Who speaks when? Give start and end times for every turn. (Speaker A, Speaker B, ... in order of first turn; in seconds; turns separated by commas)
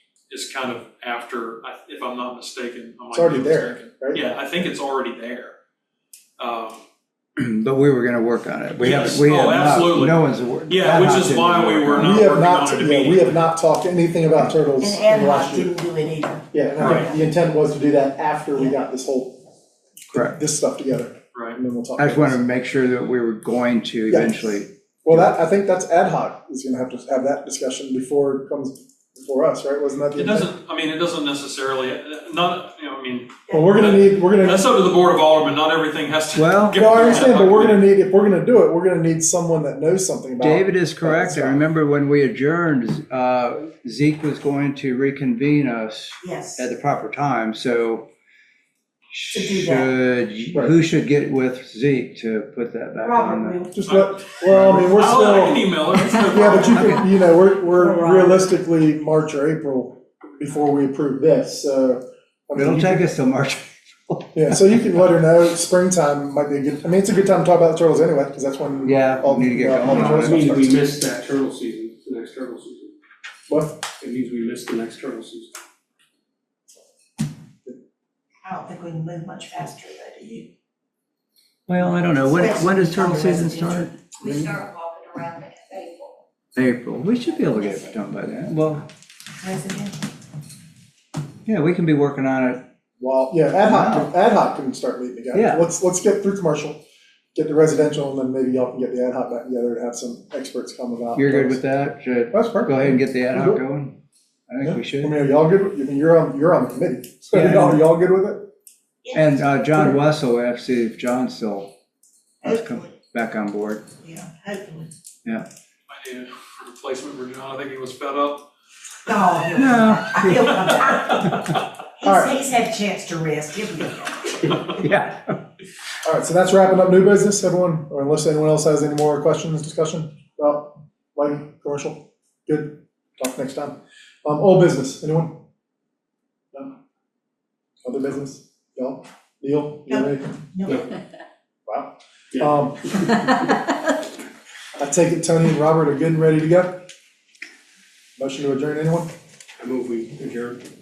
Speaker A: 0.3-5.5, Speaker B: 3.1-4.2, Speaker A: 6.4-6.8, Speaker C: 7.4-12.2, Speaker A: 8.8-13.4, Speaker B: 11.9-15.7, Speaker D: 14.8-17.1, Speaker B: 16.5-19.4, Speaker A: 16.8-17.1, Speaker B: 20.1-22.4, Speaker A: 21.3-21.6, Speaker C: 22.0-25.4, Speaker B: 24.1-30.5, Speaker A: 30.1-37.9, Speaker B: 33.5-34.8, Speaker C: 36.3-36.9, Speaker B: 36.7-41.6, Speaker C: 40.4-48.1, Speaker D: 46.2-46.6, Speaker C: 49.1-53.6, Speaker D: 49.3-49.9, Speaker D: 53.0-53.8, Speaker B: 53.7-55.7, Speaker A: 53.9-57.0, Speaker B: 56.2-63.0, Speaker D: 56.4-56.9, Speaker D: 57.7-58.3, Speaker C: 62.5-64.8, Speaker B: 64.3-70.8, Speaker C: 68.8-70.5, Speaker E: 69.9-72.9, Speaker B: 73.5-73.8, Speaker E: 74.0-75.5, Speaker D: 78.4-80.5, Speaker C: 81.7-84.0, Speaker D: 82.3-83.9, Speaker F: 84.2-86.2, Speaker B: 84.2-84.6, Speaker C: 86.5-88.9, Speaker F: 87.6-87.9, Speaker D: 89.4-90.0, Speaker C: 91.5-92.7, Speaker B: 93.0-96.8, Speaker C: 93.7-94.1, Speaker C: 95.3-95.7, Speaker B: 97.3-101.6, Speaker C: 101.2-104.0, Speaker B: 102.3-103.6, Speaker C: 104.5-105.2, Speaker B: 104.6-108.5, Speaker C: 107.3-107.9, Speaker D: 109.0-109.8, Speaker C: 109.1-111.7, Speaker C: 112.4-113.8, Speaker D: 114.0-114.9, Speaker A: 115.9-118.5, Speaker D: 119.1-121.4, Speaker C: 119.5-120.9, Speaker D: 122.0-124.6, Speaker B: 122.0-122.4, Speaker C: 124.8-125.4, Speaker B: 126.0-135.4, Speaker B: 137.8-140.5, Speaker D: 139.9-140.8, Speaker B: 141.7-143.5, Speaker B: 144.8-146.9, Speaker B: 148.2-149.1, Speaker E: 149.6-150.6